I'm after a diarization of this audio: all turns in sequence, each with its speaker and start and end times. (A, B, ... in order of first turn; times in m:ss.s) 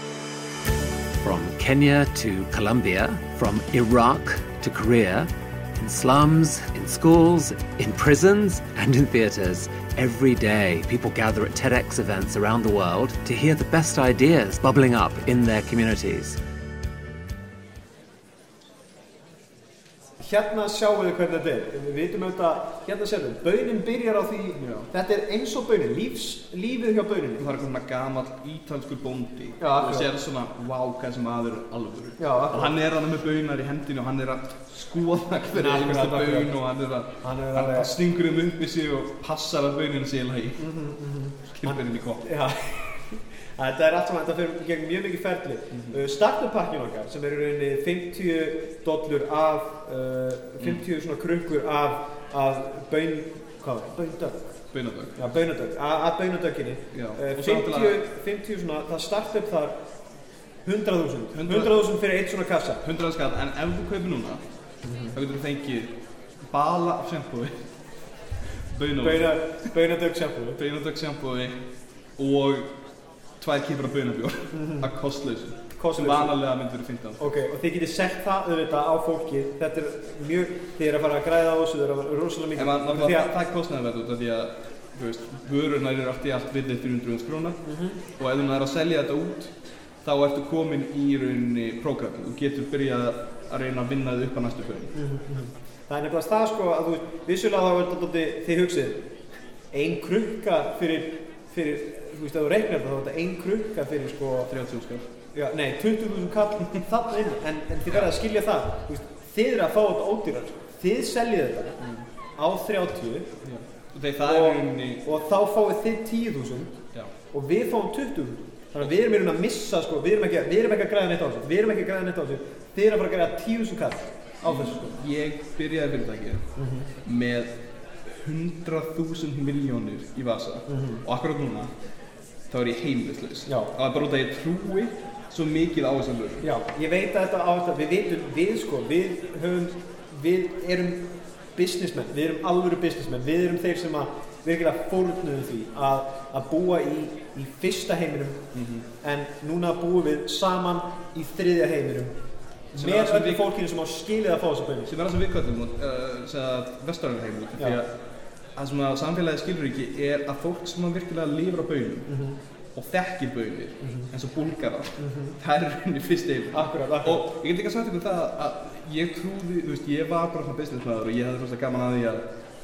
0:01.2-0:16.4 A
0:20.2-0:27.6 B
0:24.6-0:24.9 C
0:27.4-0:40.6 C
0:29.6-0:30.1 B
0:32.2-0:32.7 B
0:35.5-0:36.5 B
0:37.2-0:37.9 B
0:40.6-0:54.5 B
0:41.4-0:42.2 C
0:45.7-0:46.0 C
0:54.7-0:55.2 C
0:55.2-0:59.8 B
0:56.9-0:58.0 C
1:00.6-1:02.8 B
1:01.3-1:01.8 C
1:02.8-1:04.4 C
1:04.8-1:05.2 B
1:05.1-1:07.6 C
1:08.7-1:09.4 C
1:09.0-1:10.6 B
1:10.5-1:11.6 C
1:12.2-1:12.7 C
1:13.4-1:17.2 C
1:14.5-1:14.9 B
1:15.8-1:16.3 B
1:17.2-1:23.3 B
1:22.5-1:27.6 C
1:27.6-1:28.0 B
1:28.2-1:34.9 C
1:34.9-1:39.1 B
1:39.7-1:44.5 B
1:44.5-1:45.1 C
1:45.3-1:51.8 B
1:47.9-1:48.1 C
1:51.8-1:52.0 C
1:52.4-1:53.3 B
1:53.4-1:55.0 C
1:54.2-1:56.8 B
1:57.3-2:04.9 B
2:04.4-2:06.4 C
2:06.6-2:06.9 B
2:07.0-2:11.7 C
2:10.7-2:11.0 B
2:12.5-2:16.4 C
2:13.4-2:13.7 B
2:16.4-2:28.5 B
2:28.5-2:28.9 C
2:29.0-2:32.2 B
2:32.7-2:34.9 B
2:32.8-2:33.5 C
2:34.8-2:37.9 C
2:38.6-2:42.1 C
2:42.1-2:42.4 B
2:42.7-2:52.3 C
2:43.8-2:44.1 B
2:45.0-2:45.4 B
2:46.5-2:47.3 B